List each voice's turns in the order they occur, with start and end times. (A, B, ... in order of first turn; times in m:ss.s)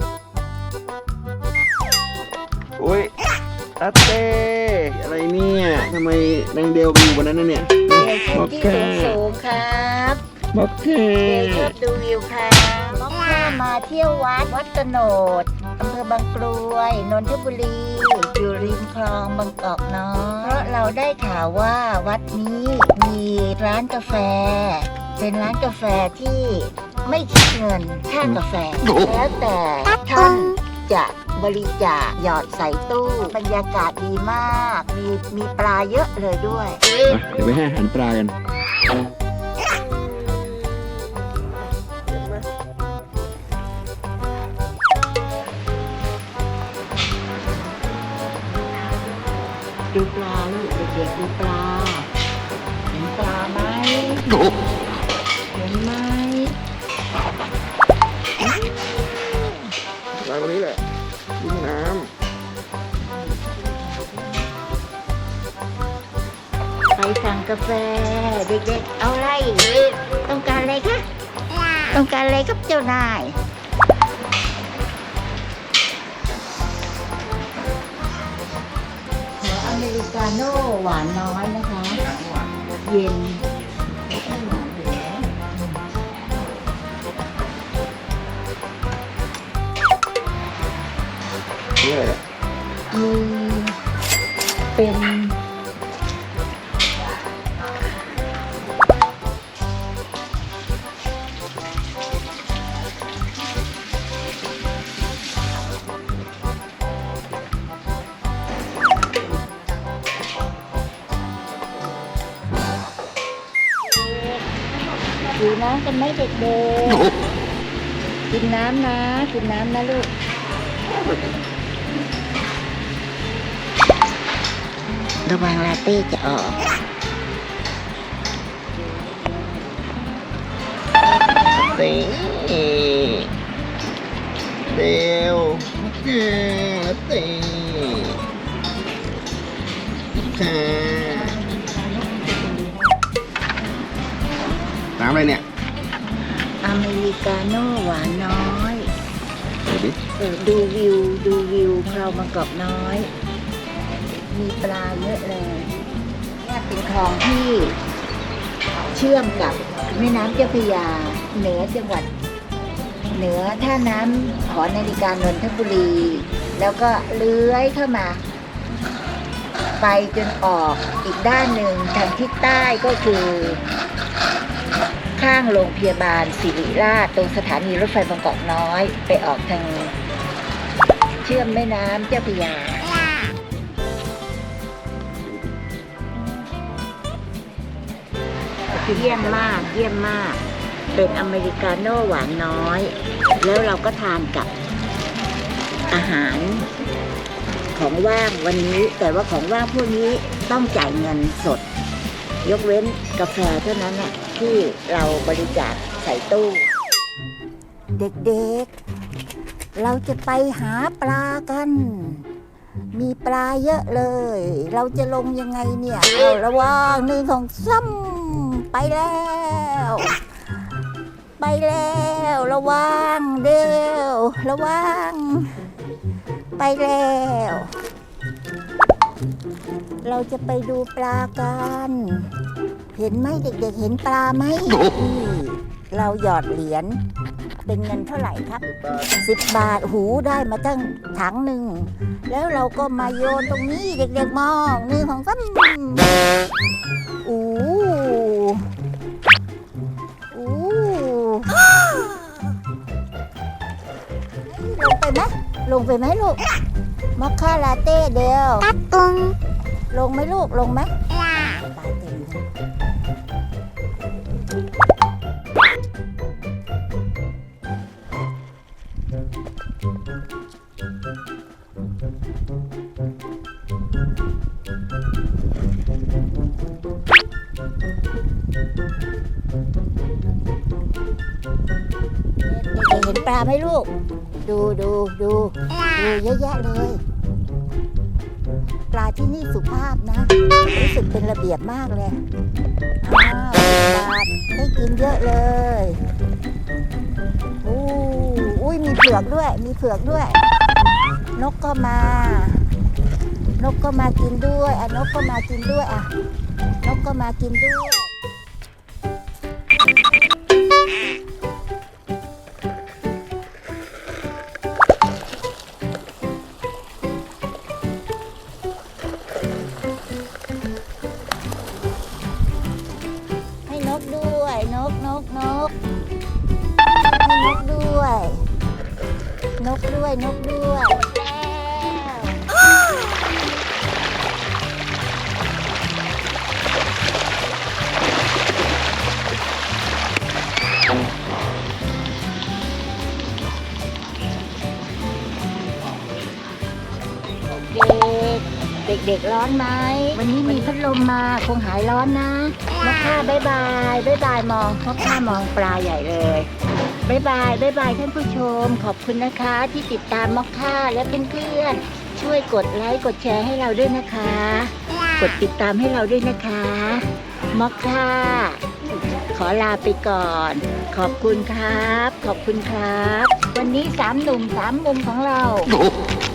0:02.8-0:03.1 A
0:03.8-0:09.2 A
0:07.9-0:10.2 B
0:10.5-0:11.7 A
0:11.2-0:36.8 B
0:37.0-0:38.3 A
0:49.9-0:52.1 B
0:52.9-0:54.4 B
0:55.5-0:56.6 B
1:00.2-1:00.8 A
1:01.4-1:02.1 A
1:03.3-1:04.2 B
1:06.9-1:11.0 B
1:11.9-1:13.4 B
1:19.4-1:22.0 B
1:22.8-1:23.4 B
1:24.1-1:25.6 B
1:31.8-1:32.2 A
1:32.9-1:33.8 B
1:34.7-1:35.4 B
1:55.3-1:57.1 B
1:58.3-2:00.1 B
2:05.2-2:06.6 B
2:11.6-2:13.3 A
2:14.7-2:18.2 A
2:20.2-2:21.4 A
2:25.0-2:25.4 A
2:26.6-2:28.9 B
2:29.6-2:30.0 A
2:30.1-2:33.1 B
2:34.3-2:35.8 B
2:36.4-2:37.8 B
2:38.9-2:42.1 B
2:43.1-2:48.2 B
2:49.8-2:53.6 B
2:55.2-2:59.9 B
3:01.2-3:03.0 B
3:08.7-3:10.4 B
3:10.9-3:14.5 B
3:15.9-3:16.6 B
3:17.7-3:21.6 B
3:22.4-3:26.7 B
3:28.0-3:28.7 B
3:29.7-3:32.2 B
3:32.9-3:40.2 B
3:41.4-3:45.6 B
3:46.6-3:47.7 B
3:50.0-3:52.3 B
3:52.9-3:57.0 B
3:57.6-3:58.6 B
3:58.7-3:59.1 A
3:59.2-4:06.1 B
4:07.2-4:08.7 B
4:10.3-4:11.9 B
4:14.5-4:16.4 B
4:17.2-4:19.3 B
4:19.9-4:22.4 B
4:42.4-4:43.9 B
4:44.4-4:47.0 B
4:48.9-4:52.2 B
4:53.0-4:56.0 B
4:57.6-5:00.4 B
5:01.4-5:02.7 B
5:03.6-5:06.1 B
5:06.8-5:08.1 B
5:23.7-5:25.7 B
5:27.2-5:28.5 B
5:29.6-5:32.5 B
5:47.5-5:56.5 B
5:57.0-6:08.6 B
6:09.3-6:15.7 B